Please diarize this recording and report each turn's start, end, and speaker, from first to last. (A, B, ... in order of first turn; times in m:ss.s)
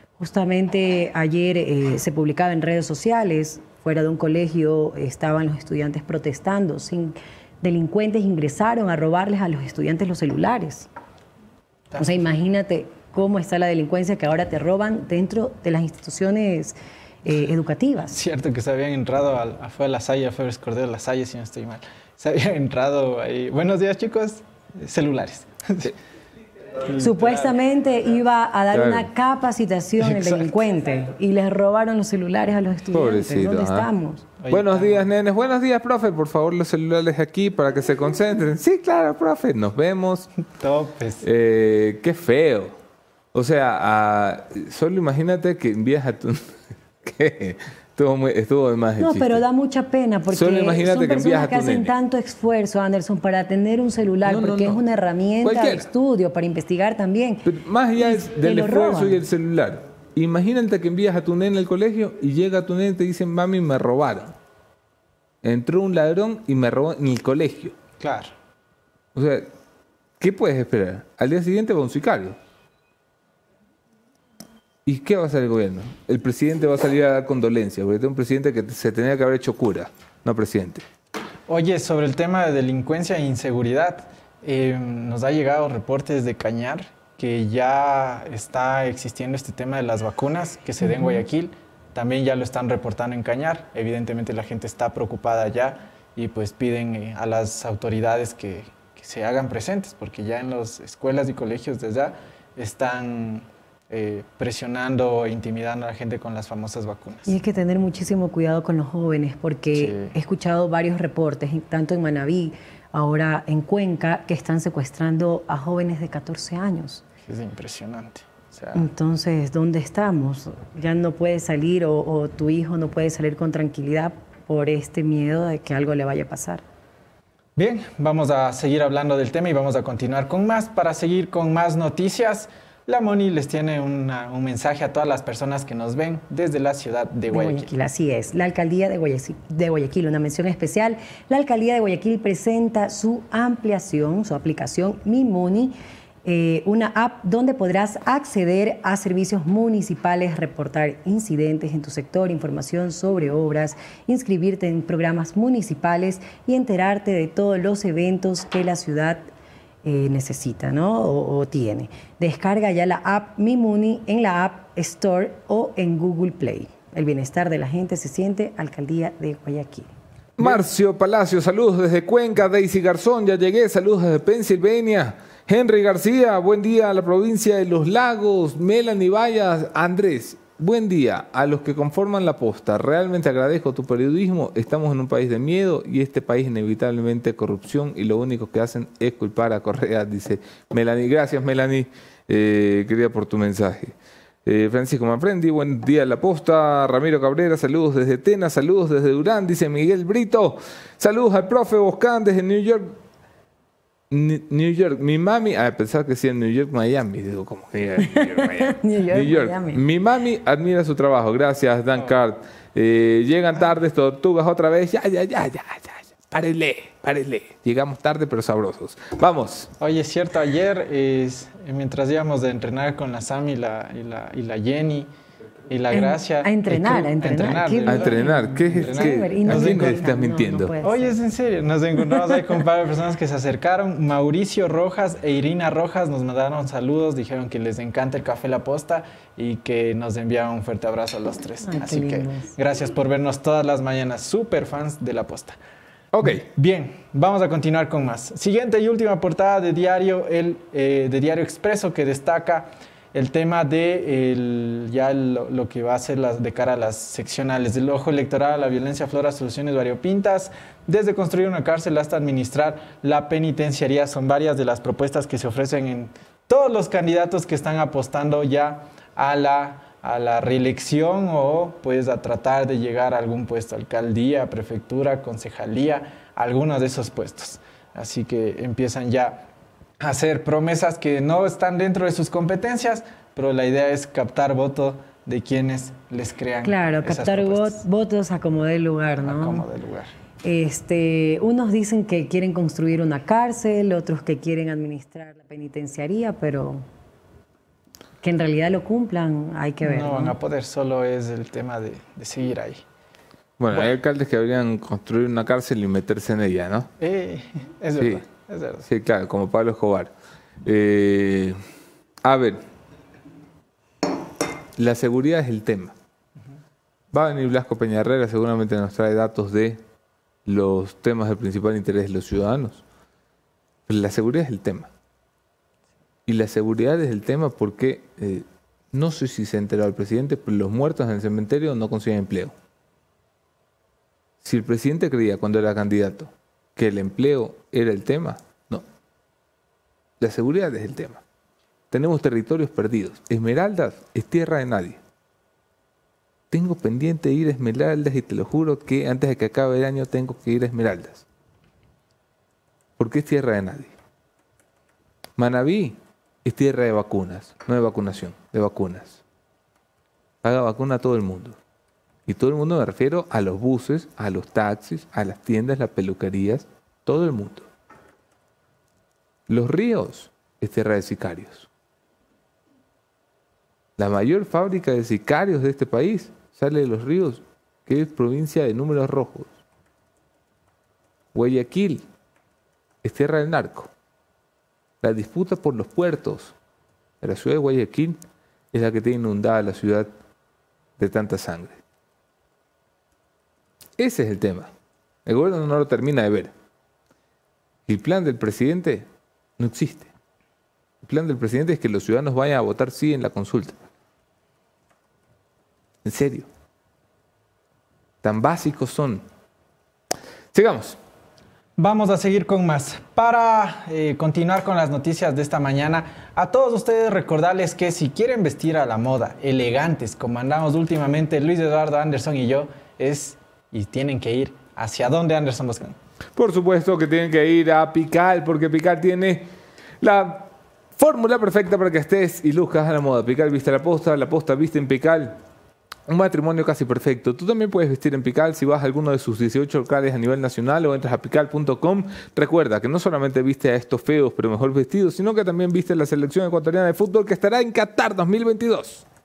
0:00.2-0:10.9 A
0:12.0-0:18.2 A
0:18.1-0:25.9 B
0:26.9-0:27.5 B
0:27.0-0:34.3 A
0:28.7-0:29.1 C
0:30.0-0:30.6 B
0:32.9-0:33.9 C
0:34.4-0:35.0 B
0:34.5-0:40.3 C
0:40.6-0:41.2 B
0:41.2-0:42.8 C
0:43.3-0:49.4 C
0:49.0-0:59.2 A
0:50.3-0:51.9 C
0:54.2-0:54.8 C
0:55.4-0:55.9 C
0:57.4-1:04.3 C
1:05.4-1:07.8 C
1:08.0-1:08.3 B
1:09.2-1:09.5 C
1:10.2-1:12.4 C
1:14.9-1:20.8 C
1:21.5-1:47.3 B
1:30.9-1:31.2 A
1:47.3-1:57.0 A
1:49.7-1:50.2 B
1:57.3-1:58.9 B
1:58.7-2:06.6 A
2:07.6-2:17.7 B
2:17.3-2:39.2 A
2:39.8-2:49.9 A
2:50.4-3:23.0 C
3:24.1-3:39.7 C
3:28.0-3:29.8 A
3:39.8-3:45.1 B
3:45.7-3:50.0 B
3:45.9-3:51.2 A
3:47.9-3:50.8 C
3:50.8-4:05.6 B
4:01.6-4:02.5 A
4:06.1-4:06.4 C
4:06.3-4:39.5 B
4:40.0-4:47.8 B
4:46.6-4:49.7 A
4:49.2-4:50.1 B
4:50.4-4:56.8 A
4:58.2-5:00.4 A
4:59.8-5:02.8 B
5:03.6-5:06.9 C
5:07.0-5:08.9 B
5:08.9-5:10.1 C
5:10.6-5:11.6 C
5:12.2-5:12.6 C
5:14.8-5:15.9 C
5:17.1-5:19.8 C
5:20.5-5:22.8 C
5:23.9-5:24.9 C
5:26.3-5:32.5 C
5:34.4-5:38.8 C
5:40.2-5:41.2 C
5:41.9-5:45.0 C
5:46.5-5:51.2 C
5:53.0-5:53.9 C
5:55.4-5:59.2 C
6:00.4-6:01.6 C
6:02.3-6:07.7 C
6:09.5-6:11.7 C
6:14.0-6:19.5 C
6:21.3-6:22.0 C
6:23.0-6:23.9 C
6:25.0-6:26.6 C
6:27.2-6:28.2 C
6:28.7-6:30.1 C
6:31.0-6:31.8 C
6:34.0-6:34.7 C
6:35.3-6:36.5 C
6:37.9-6:39.1 C
6:39.6-6:40.1 C
6:41.0-6:43.8 C
6:46.0-6:46.5 C
6:48.2-6:49.2 C
6:50.5-6:51.0 C
6:51.8-7:06.0 B
7:06.4-7:09.5 C
7:10.0-7:15.4 C
7:16.1-7:29.0 C